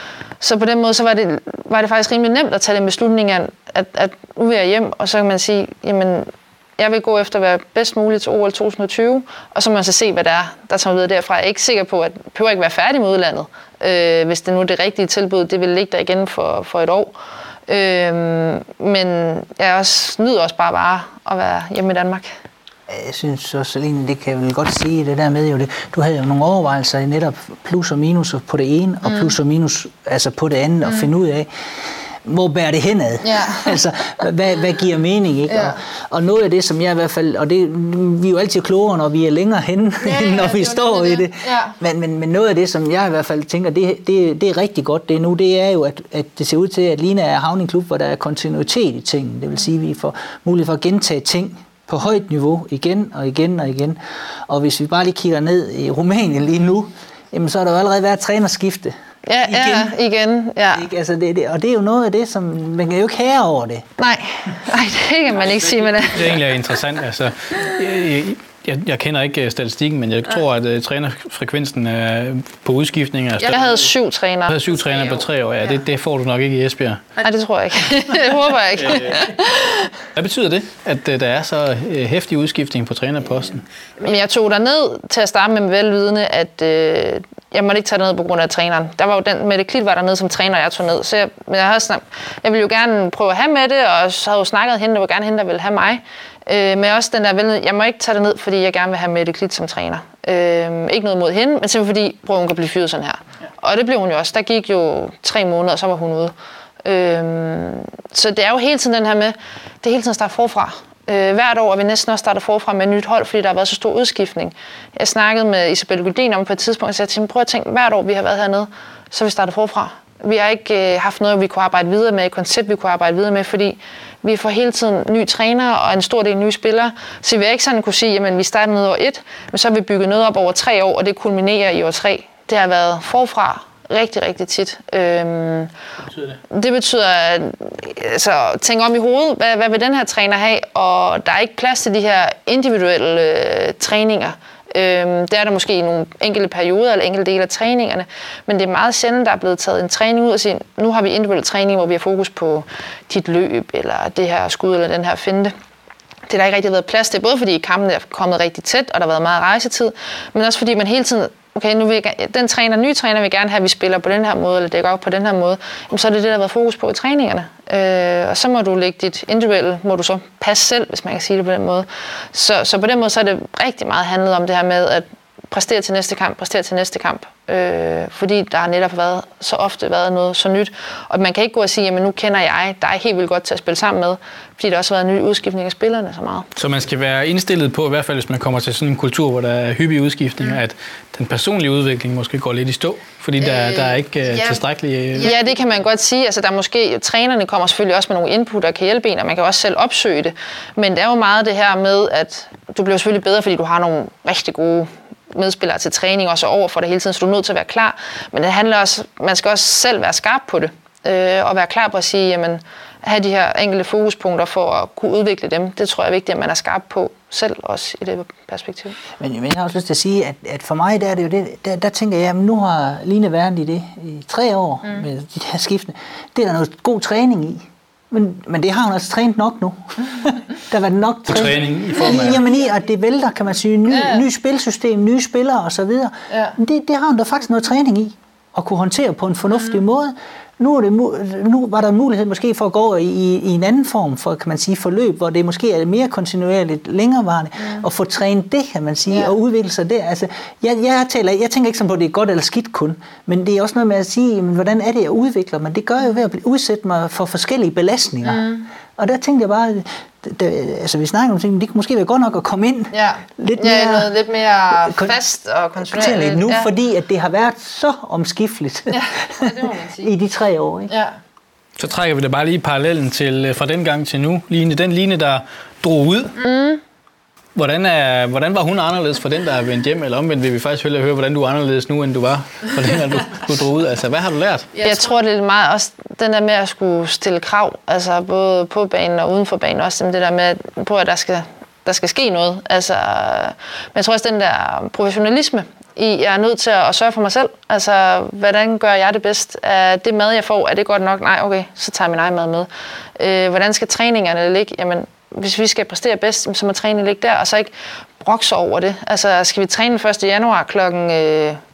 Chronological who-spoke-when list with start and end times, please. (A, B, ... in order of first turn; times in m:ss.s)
0:00.4-0:17.1 A
0:17.7-0:22.3 A
0:22.9-0:58.9 B
0:33.2-0:33.8 A
0:35.5-0:35.8 A
0:40.0-0:41.8 A
0:59.3-1:00.8 A
0:59.5-0:59.9 B
1:00.7-1:03.9 B
1:04.0-1:06.4 A
1:06.1-1:13.8 C
1:13.4-1:15.8 A
1:14.5-1:17.1 C
1:17.2-1:19.9 A
1:18.8-1:19.3 C
1:20.2-1:23.7 C
1:24.0-1:46.3 A
1:46.8-2:15.7 A
2:16.5-2:35.5 A
2:36.3-3:06.5 A
3:06.6-3:15.3 C
3:13.4-3:14.6 A
3:15.2-3:39.0 A
3:39.2-4:24.1 B
3:51.3-3:52.4 C
3:53.9-3:54.2 A
3:56.3-3:56.6 A
4:18.2-4:18.7 A
4:22.9-4:26.7 A
4:24.8-4:25.2 B
4:25.8-4:30.9 B
4:28.9-4:30.1 A
4:30.9-4:31.2 A
4:31.8-4:36.3 C
4:36.4-4:36.8 A
4:37.6-4:44.8 C
4:44.8-5:11.6 A